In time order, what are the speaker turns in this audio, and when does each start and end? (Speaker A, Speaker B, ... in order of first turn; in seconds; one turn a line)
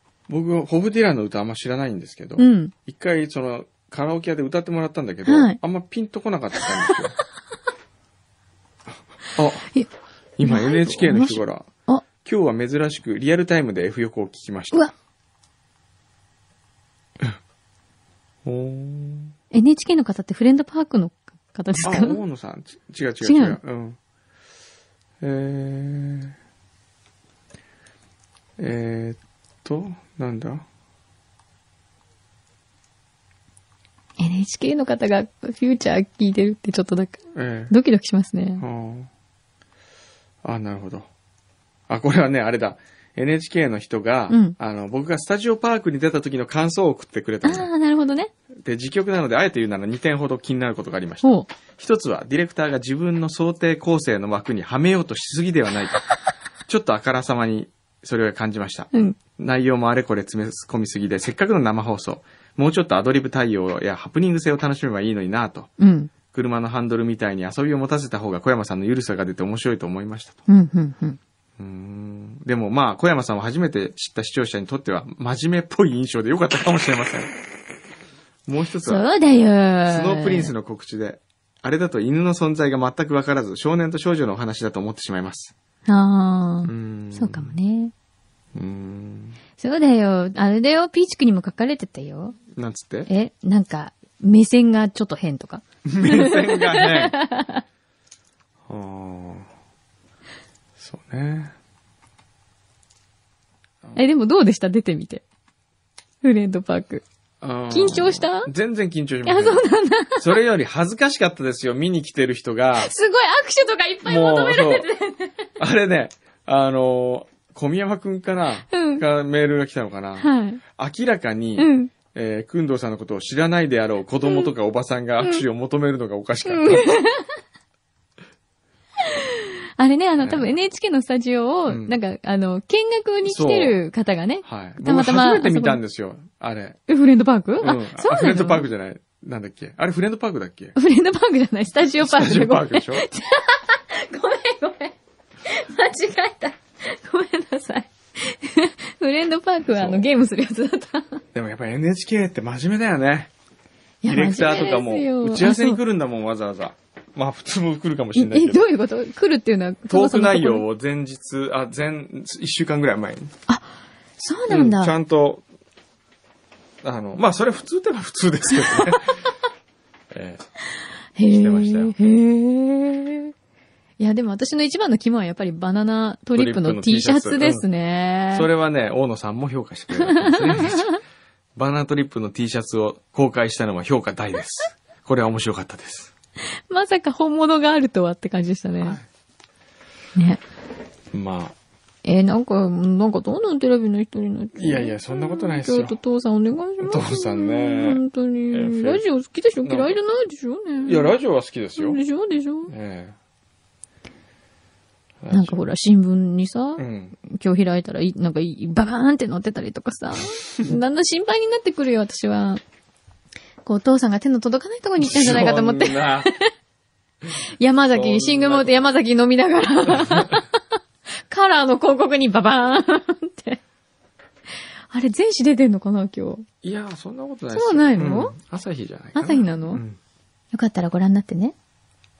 Speaker A: 0.3-7.2
Speaker B: 2.4-2.7
Speaker B: 5.2-5.6
Speaker A: 9.3-9.7
Speaker A: 10.4-11.7
Speaker B: 10.4-12.0
Speaker A: 12.2-14.8
Speaker A: 18.4-19.3
Speaker B: 19.5-22.2
Speaker A: 21.8-24.0
Speaker B: 23.2-23.6
Speaker A: 25.2-26.3
Speaker A: 28.6-30.6
Speaker B: 34.2-37.2
Speaker A: 37.3-37.7
Speaker B: 37.7-38.6
Speaker A: 38.6-39.1
Speaker A: 40.4-41.1
Speaker A: 41.9-47.7
Speaker B: 44.3-44.5
Speaker B: 47.4-48.3
Speaker A: 48.6-56.0
Speaker A: 56.7-65.7
Speaker B: 65.8-66.1
Speaker A: 66.3-70.4
Speaker B: 70.5-71.2
Speaker A: 71.6-77.3
Speaker A: 78.5-79.0
Speaker B: 78.8-80.5
Speaker A: 79.8-85.5
Speaker B: 85.8-87.9
Speaker A: 86.6-87.5
Speaker A: 88.5-89.4
Speaker B: 89.6-92.4
Speaker A: 92.5-93.1
Speaker B: 93.1-97.6
Speaker A: 95.8-97.1
Speaker A: 98.7-99.5
Speaker A: 100.8-101.5
Speaker B: 103.9-105.2
Speaker B: 106.2-107.0
Speaker A: 107.4-109.6
Speaker B: 107.7-108.5
Speaker B: 109.2-110.2
Speaker A: 110.2-112.9
Speaker B: 112.8-115.3
Speaker A: 114.0-114.9
Speaker A: 115.6-126.9
Speaker B: 118.7-119.0
Speaker B: 120.2-120.6
Speaker B: 121.6-121.9
Speaker B: 124.2-124.5
Speaker B: 126.4-127.3
Speaker B: 129.1-135.8
Speaker A: 130.2-130.5
Speaker A: 131.7-131.9
Speaker A: 133.2-133.8
Speaker A: 134.4-136.8
Speaker B: 136.9-138.7
Speaker A: 137.6-140.7
Speaker B: 140.7-151.2
Speaker A: 142.0-143.0
Speaker A: 149.7-150.0
Speaker A: 151.3-153.3
Speaker B: 154.0-155.8
Speaker A: 154.1-158.6
Speaker B: 158.1-160.6
Speaker A: 159.9-163.3
Speaker B: 163.5-164.9
Speaker A: 164.5-165.4
Speaker A: 166.8-169.2
Speaker A: 170.1-170.4
Speaker B: 171.2-173.3
Speaker A: 171.3-171.9
Speaker B: 174.0-178.5
Speaker A: 176.3-177.7
Speaker A: 178.3-180.9
Speaker B: 180.0-181.0
Speaker A: 181.6-186.1
Speaker B: 186.7-189.0
Speaker A: 191.1-191.5
Speaker B: 192.0-201.2
Speaker A: 194.6-196.0
Speaker A: 196.8-199.0
Speaker A: 199.6-200.0
Speaker A: 200.8-202.0
Speaker B: 201.8-202.7
Speaker A: 202.7-203.2
Speaker A: 205.2-205.6
Speaker B: 205.3-212.6
Speaker A: 206.8-207.1
Speaker B: 213.6-216.5
Speaker A: 215.0-216.3
Speaker B: 217.6-220.4
Speaker A: 217.9-218.7
Speaker A: 219.9-220.3
Speaker B: 221.3-223.6
Speaker B: 224.9-226.4
Speaker A: 226.6-230.0
Speaker B: 227.5-228.3
Speaker B: 229.2-229.8
Speaker B: 230.5-231.5